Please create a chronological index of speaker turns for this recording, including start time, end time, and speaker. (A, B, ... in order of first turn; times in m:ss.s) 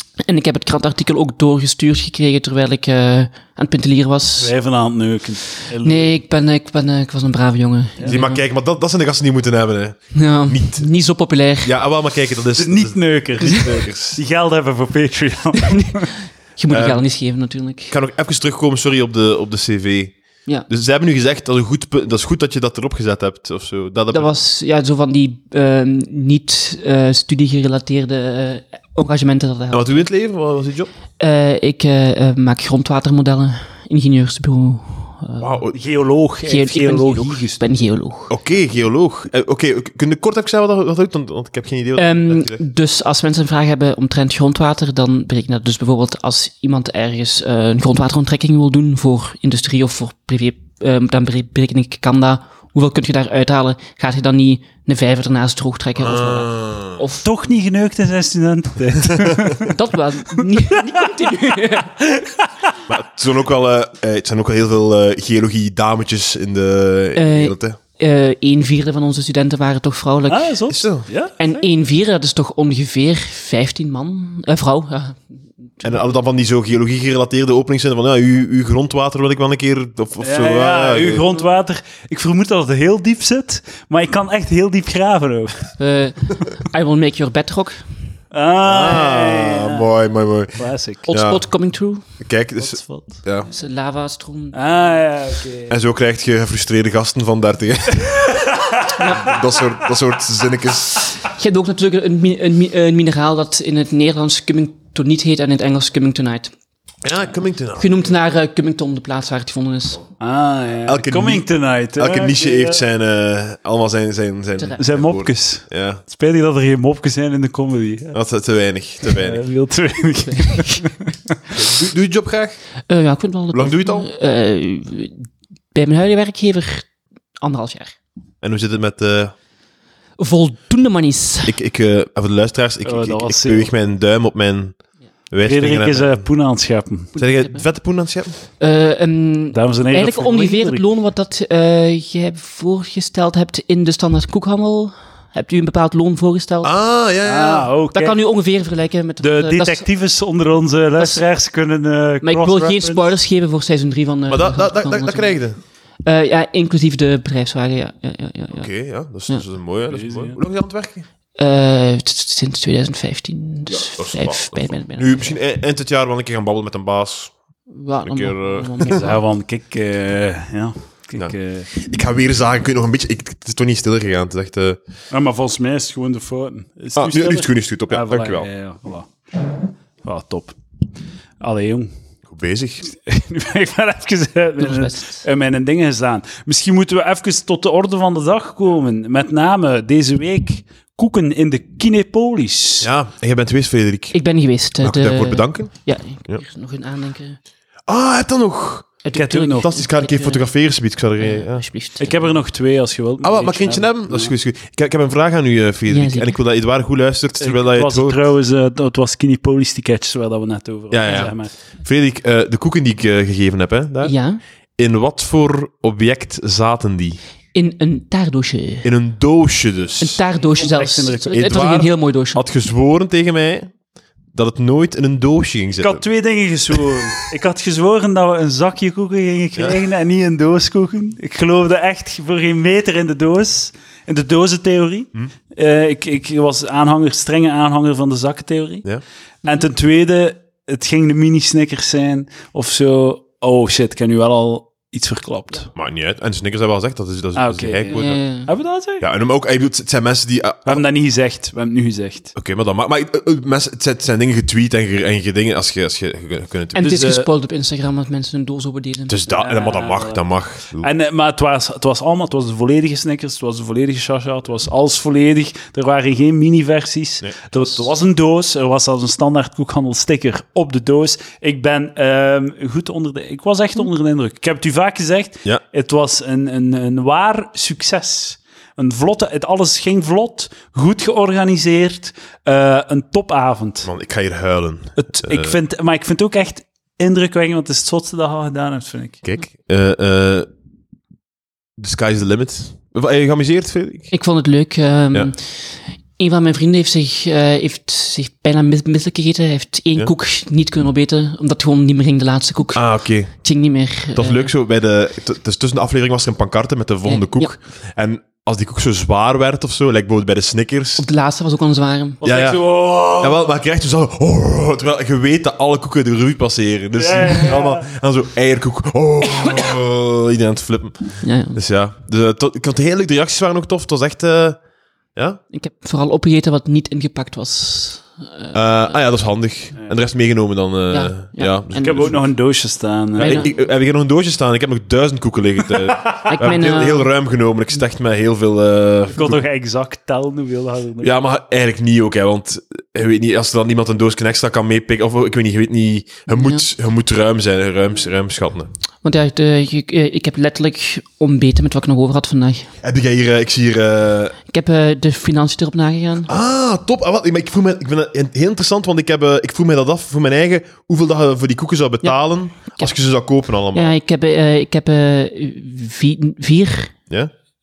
0:00.2-0:04.5 A
0:04.4-0:06.1 B
0:05.8-0:08.4 A
0:08.1-0:10.9 C
0:10.1-0:11.7 A
0:11.6-0:14.2 C
0:12.6-0:16.1 B
0:15.6-0:17.9 A
0:16.7-0:17.0 C
0:17.9-0:20.2 C
0:20.7-0:24.3 C
0:24.1-0:30.1 A
0:29.7-0:30.9 C
0:31.2-0:35.6 A
0:35.4-0:35.8 C
0:35.7-0:37.6 B
0:36.4-0:38.3 A
0:38.3-0:42.6 C
0:42.0-0:57.3 A
0:56.0-0:57.0 C
0:57.2-0:59.8 B
0:59.6-1:02.0 A
1:00.4-1:00.8 B
1:02.0-1:02.8 B
1:02.9-1:07.8 C
1:07.2-1:10.6 A
1:10.3-1:11.4 B
1:10.7-1:11.1 C
1:11.4-1:15.2 A
1:15.8-1:21.3 C
1:20.2-1:25.8 B
1:25.8-1:27.8 A
1:28.3-1:29.9 B
1:28.6-1:31.4 C
1:30.6-1:31.1 B
1:31.1-1:32.0 A
1:32.2-1:33.5 C
1:32.6-1:33.2 B
1:33.5-1:34.6 A
1:34.5-1:35.8 B
1:35.7-1:41.1 C
1:38.5-1:39.0 B
1:38.9-1:39.5 A
1:41.1-1:46.5 A
1:47.0-1:48.1 C
1:47.8-1:50.0 A
1:50.2-1:52.8 B
1:50.9-1:56.0 C
1:54.8-1:58.2 B
1:58.1-1:59.4 C
1:59.0-2:01.4 B
2:01.5-2:02.6 C
2:02.9-2:06.9 A
2:03.5-2:04.1 C
2:07.4-2:08.0 A
2:08.4-2:09.3 C
2:10.2-2:11.6 A
2:11.5-2:14.8 C
2:12.8-2:13.7 B
2:15.3-2:16.2 C
2:15.4-2:17.2 B
2:17.2-2:18.4 C
2:17.2-2:17.7 A
2:18.6-2:26.7 A
2:19.5-2:20.8 B
2:26.6-2:27.7 C
2:27.2-2:28.2 B
2:27.9-2:29.8 A
2:29.2-2:33.1 B
2:31.0-2:31.3 A
2:32.2-2:35.4 A
2:34.3-2:35.6 C
2:36.0-2:38.7 A
2:38.5-2:41.1 C
2:39.9-2:40.4 B
2:41.4-2:45.4 A
2:43.7-2:47.3 C
2:47.7-2:49.1 A
2:48.0-2:49.1 C
2:48.9-2:51.7 B
2:51.2-2:54.8 C
2:55.1-2:59.1 B
2:57.0-2:58.5 C
3:00.0-3:00.6 B
3:01.4-3:01.9 B
3:02.3-3:02.8 C
3:02.9-3:12.9 B
3:04.6-3:05.2 A
3:12.8-3:14.2 C
3:14.1-3:17.4 A
3:14.8-3:16.4 C
3:17.9-3:19.0 C
3:19.0-3:20.5 A
3:19.1-3:19.7 B
3:19.6-3:21.7 C
3:21.2-3:22.3 A
3:22.0-3:24.3 B
3:23.2-3:28.2 C
3:25.9-3:26.4 A
3:27.4-3:31.5 B
3:30.9-3:34.2 C
3:34.0-3:34.4 A
3:34.8-3:37.2 C
3:37.6-3:38.9 A
3:38.8-3:40.2 C
3:40.0-3:42.4 A
3:40.6-3:41.6 B
3:41.3-3:43.7 C
3:44.3-3:46.0 C
3:45.8-3:58.9 B
3:59.4-4:05.7 B
4:05.8-4:08.2 C
4:07.4-4:09.0 B
4:07.9-4:08.5 A
4:09.0-4:10.8 C
4:10.7-4:12.3 B
4:12.4-4:17.0 C
4:16.8-4:19.4 A
4:16.8-4:17.3 B
4:19.1-4:20.9 C
4:19.4-4:20.2 B
4:20.8-4:43.9 B
4:27.2-4:27.7 C
4:43.8-4:45.6 C
4:45.0-4:49.2 B
4:49.2-4:50.5 C
4:51.8-4:54.1 C
4:54.1-5:04.5 A
5:02.7-5:03.4 C
5:04.1-5:11.0 C
5:07.1-5:07.6 A
5:11.0-5:12.2 A
5:12.2-5:13.4 B
5:12.2-5:24.6 C
5:16.9-5:17.9 B
5:19.4-5:19.7 A
5:21.2-5:21.6 A
5:25.5-5:28.6 A
5:28.5-5:32.2 C
5:30.9-5:32.0 A
5:31.8-5:33.5 B
5:33.2-5:33.5 A
5:33.2-5:39.4 C
5:35.9-5:36.4 B
5:36.3-5:37.1 A
5:39.1-5:41.1 B
5:41.0-5:48.7 C
5:46.3-5:46.6 A
5:49.0-5:52.7 A
5:52.8-5:54.4 C
5:54.5-5:56.3 A
5:56.3-6:04.0 C
6:02.0-6:03.0 A
6:03.7-6:07.0 A